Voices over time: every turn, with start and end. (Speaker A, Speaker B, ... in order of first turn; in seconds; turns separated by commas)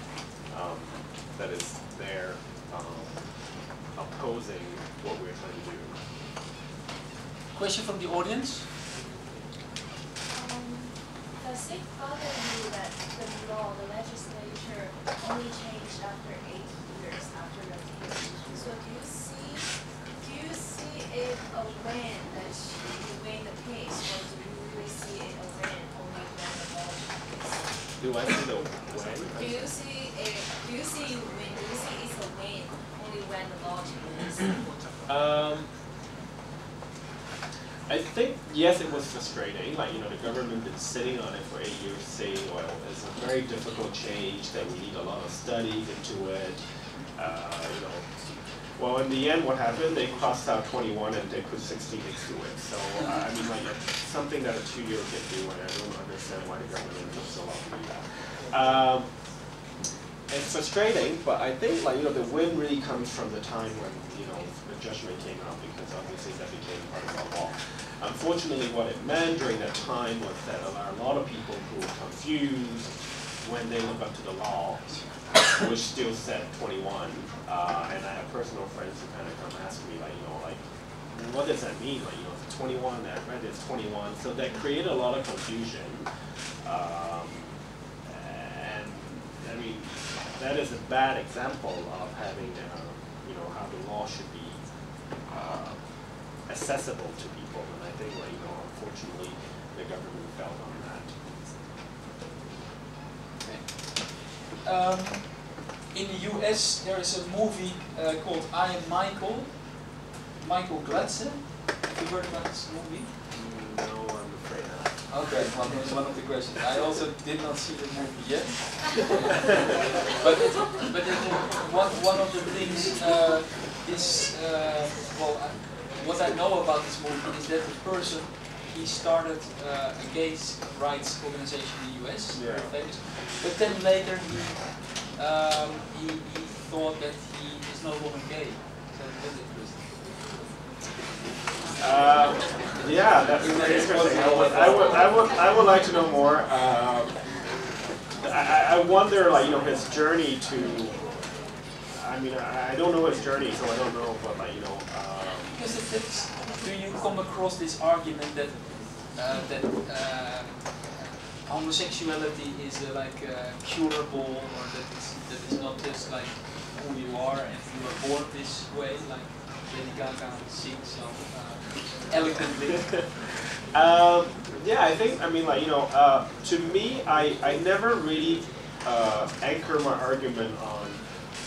Speaker A: 0.5-3.3, Speaker A: 3.9-6.0, Speaker B: 7.5-8.7, Speaker C: 10.3-27.7, Speaker A: 28.0-29.7, Speaker C: 29.3-34.7, Speaker A: 35.1-35.7, Speaker A: 37.9-48.1, Speaker A: 48.6-59.1, Speaker A: 60.3-86.1, Speaker A: 86.6-94.6, Speaker A: 95.2-95.8, Speaker A: 96.5-101.2, Speaker B: 103.4-113.2, Speaker A: 113.3-115.4, Speaker B: 115.1-139.8, Speaker A: 132.3-132.7, Speaker A: 141.8-147.3, Speaker B: 142.8-145.3, Speaker A: 148.2-151.1, Speaker A: 151.9-155.6, Speaker B: 155.5-173.0, Speaker A: 172.7-173.2, Speaker A: 173.7-181.1